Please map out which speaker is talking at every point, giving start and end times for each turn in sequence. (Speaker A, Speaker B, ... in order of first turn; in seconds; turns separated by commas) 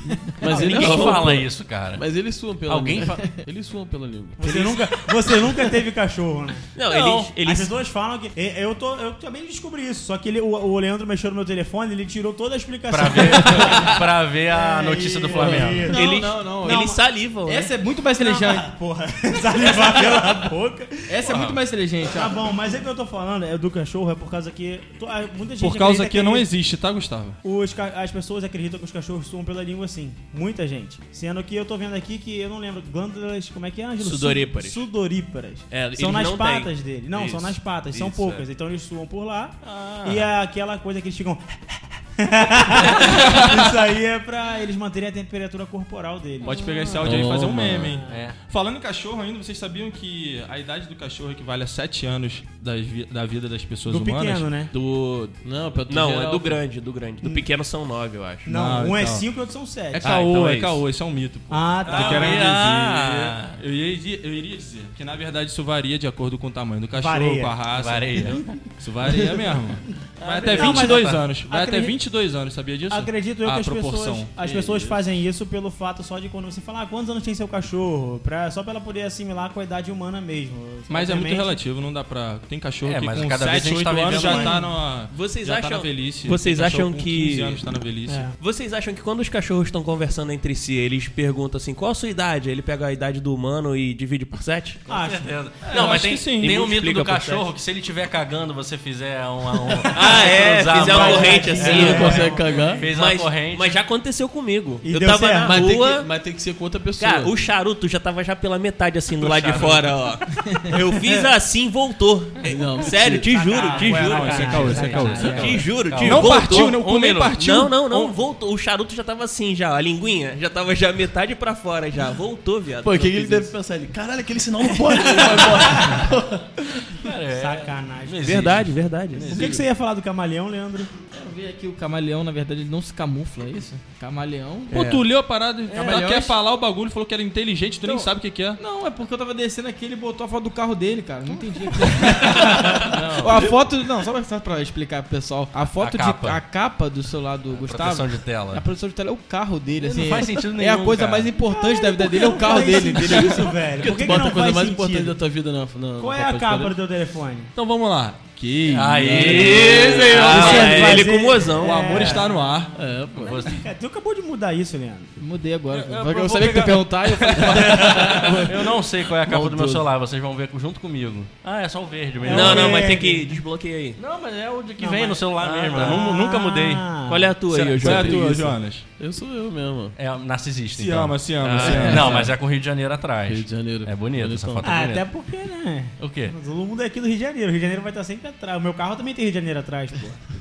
Speaker A: 0.4-4.9, Speaker B: 0.5-2.0, Speaker C: 0.5-1.1, Speaker D: 0.7-1.1, Speaker B: 2.7-3.4, Speaker C: 4.4-6.7, Speaker D: 6.7-7.7, Speaker B: 6.8-7.3, Speaker C: 7.4-17.0, Speaker B: 12.9-15.9, Speaker E: 15.4-15.8, Speaker F: 15.5-18.7, Speaker D: 15.9-17.7, Speaker C: 18.2-21.0, Speaker F: 21.1-22.4, Speaker B: 21.3-21.6, Speaker C: 22.1-26.5, Speaker E: 25.6-27.4, Speaker C: 27.4-41.6, Speaker D: 34.0-34.8, Speaker D: 35.7-38.4, Speaker B: 39.6-40.0, Speaker E: 39.8-40.2, Speaker C: 42.2-48.0, Speaker E: 43.0-43.7, Speaker E: 46.4-54.5, Speaker A: 47.0-48.0, Speaker B: 48.1-48.4, Speaker C: 53.9-54.7, Speaker D: 54.7-58.5, Speaker A: 55.4-56.6, Speaker C: 58.5-60.2, Speaker E: 58.5-59.2, Speaker E: 59.9-74.3, Speaker D: 60.0-60.8, Speaker C: 61.5-62.6, Speaker B: 61.8-63.6, Speaker C: 66.9-67.5, Speaker B: 67.7-68.6, Speaker D: 70.2-70.9, Speaker C: 70.2-72.0, Speaker C: 72.9-81.6, Speaker A: 74.4-75.0, Speaker E: 80.9-88.3, Speaker B: 82.8-84.6, Speaker C: 84.0-84.7, Speaker D: 85.1-87.6, Speaker C: 88.1-88.3, Speaker D: 88.3-94.8, Speaker C: 94.9-95.3, Speaker B: 94.9-103.8, Speaker E: 95.6-96.5, Speaker D: 96.4-97.5, Speaker D: 99.9-106.1, Speaker C: 99.9-102.8, Speaker A: 101.6-102.9, Speaker C: 104.8-105.6, Speaker A: 105.4-107.3, Speaker D: 107.0-116.8, Speaker B: 109.1-110.0, Speaker C: 111.0-111.3, Speaker A: 112.4-113.3, Speaker C: 113.2-115.7, Speaker E: 113.6-118.1, Speaker F: 114.3-115.1, Speaker B: 115.5-117.4, Speaker D: 117.3-123.5, Speaker A: 122.8-126.9, Speaker C: 125.1-125.6, Speaker B: 127.0-129.6, Speaker C: 127.3-128.5, Speaker D: 128.2-129.6, Speaker C: 129.3-130.9, Speaker F: 131.1-134.9, Speaker E: 134.7-138.6, Speaker D: 134.7-135.0, Speaker F: 135.7-136.4, Speaker F: 137.8-153.5, Speaker B: 142.2-143.5, Speaker B: 145.8-146.4, Speaker B: 147.5-148.6, Speaker B: 149.8-151.3, Speaker C: 151.4-155.2, Speaker A: 153.8-156.8, Speaker C: 156.0-157.5, Speaker E: 157.6-160.8, Speaker B: 158.7-161.0, Speaker A: 159.0-160.2, Speaker D: 159.7-162.2, Speaker C: 160.1-162.6, Speaker E: 161.6-162.7, Speaker A: 162.7-163.4, Speaker B: 163.2-163.7, Speaker C: 163.3-165.2, Speaker F: 165.2-168.6, Speaker B: 165.7-173.0, Speaker E: 167.2-168.4, Speaker A: 169.2-169.9, Speaker C: 172.2-173.4, Speaker D: 172.2-174.0, Speaker B: 173.9-176.9, Speaker C: 174.8-177.4, Speaker D: 175.4-175.9, Speaker D: 177.1-178.5, Speaker E: 177.6-178.8, Speaker A: 177.9-179.9, Speaker B: 179.9-185.0, Speaker E: 180.7-182.3, Speaker D: 181.4-182.2, Speaker A: 181.6-182.3, Speaker A: 183.2-184.7, Speaker C: 184.6-190.2, Speaker B: 186.0-186.3